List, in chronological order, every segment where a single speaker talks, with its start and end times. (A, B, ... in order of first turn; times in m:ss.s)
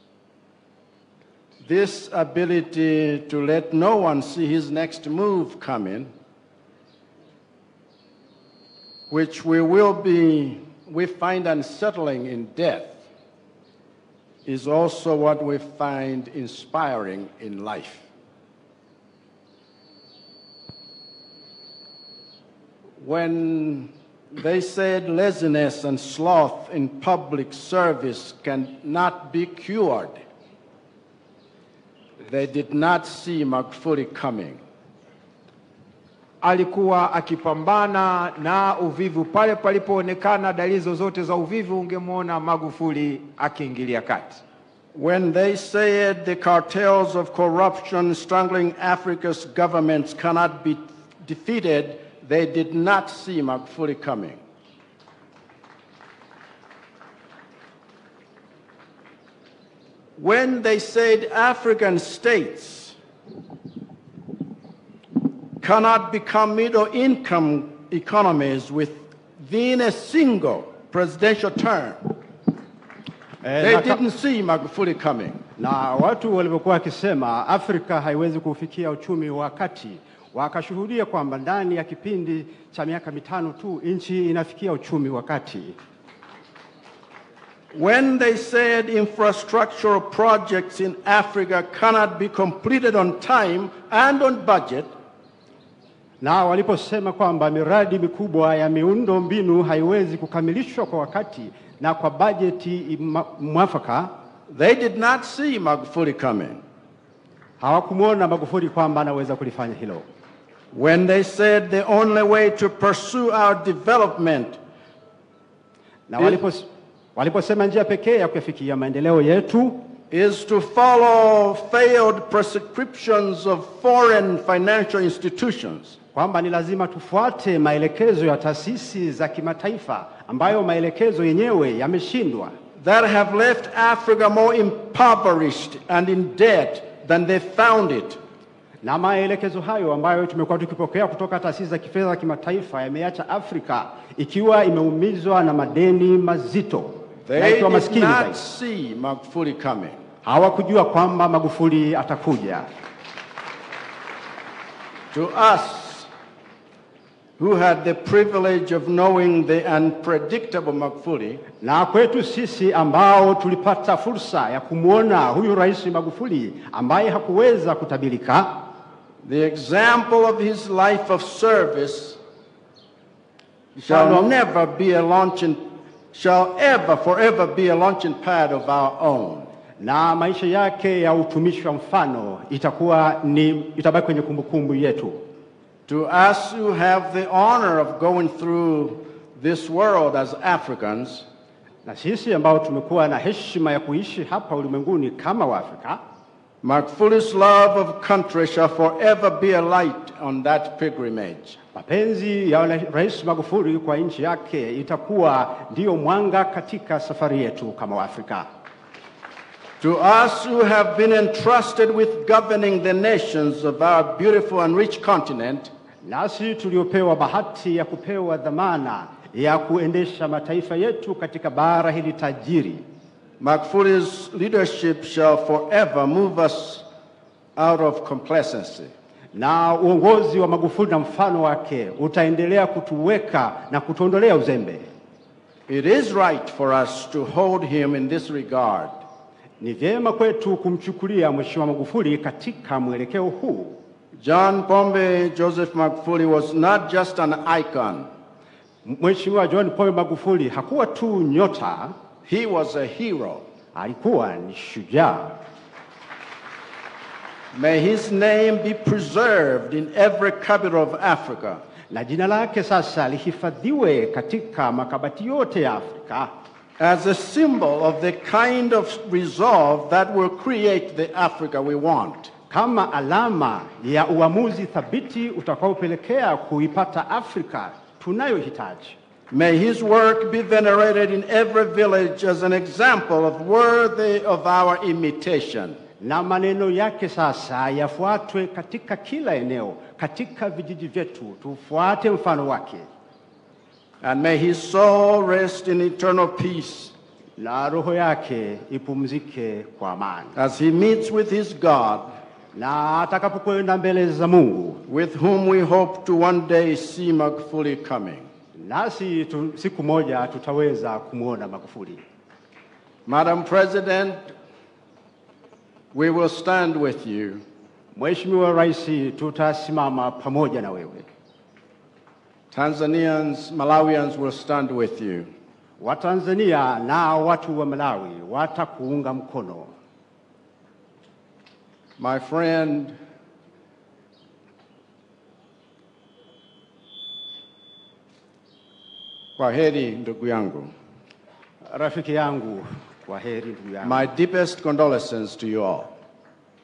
0:01.6-0:06.1 A
0:09.1-0:13.0 A
0:14.4-0:18.1 A
0:23.0-0:30.2 A
0:32.2-0:34.6 A
0:36.4-0:44.4 B
0:44.9-0:54.4 A
1:00.2-1:03.0 A
1:05.6-1:12.0 A
1:13.4-1:14.0 C
1:13.6-1:15.4 A
1:15.6-1:25.7 C
1:27.7-1:34.9 A
1:36.2-1:44.1 C
1:44.5-1:46.6 A
1:47.6-1:50.0 C
1:50.7-1:54.6 A
1:56.1-1:59.8 C
2:00.1-2:06.0 A
2:06.1-2:12.5 C
2:12.8-2:18.2 A
2:18.8-2:28.4 C
2:27.2-2:30.0 A
2:30.2-2:32.6 C
2:35.1-2:36.1 A
2:37.4-2:41.4 A
2:41.6-2:48.6 C
2:49.2-2:52.2 A
2:53.8-2:55.6 A
2:53.9-2:54.3 C
2:56.1-2:59.5 A
2:59.8-3:05.2 C
3:05.9-3:11.3 A
3:11.8-3:16.0 C
3:16.6-3:21.6 A
3:21.7-3:28.4 C
3:29.8-3:35.7 A
3:36.0-3:42.8 C
3:43.4-3:46.8 A
3:47.6-3:48.9 A
3:49.3-3:54.9 C
3:55.7-3:59.0 A
3:59.6-4:03.8 C
4:04.2-4:08.1 A
4:08.8-4:11.9 C
4:12.2-4:13.4 A
4:13.7-4:15.3 C
4:17.5-4:21.6 A
4:21.9-4:26.3 C
4:26.8-4:32.3 A
4:32.5-4:39.0 C
4:39.3-4:45.8 A
4:46.0-4:52.9 C
4:54.0-4:56.9 A
4:57.4-5:00.3 C
5:00.3-5:02.2 A
5:02.5-5:04.8 C
5:04.9-5:08.3 A
5:08.6-5:12.0 C
5:13.0-5:14.2 A
5:15.9-5:17.4 A
5:17.9-5:21.1 C
5:22.5-5:25.3 A
5:25.8-5:29.7 C
5:32.0-5:33.0 A
5:39.4-5:40.7 A
5:41.7-5:44.1 C
5:43.8-5:45.9 A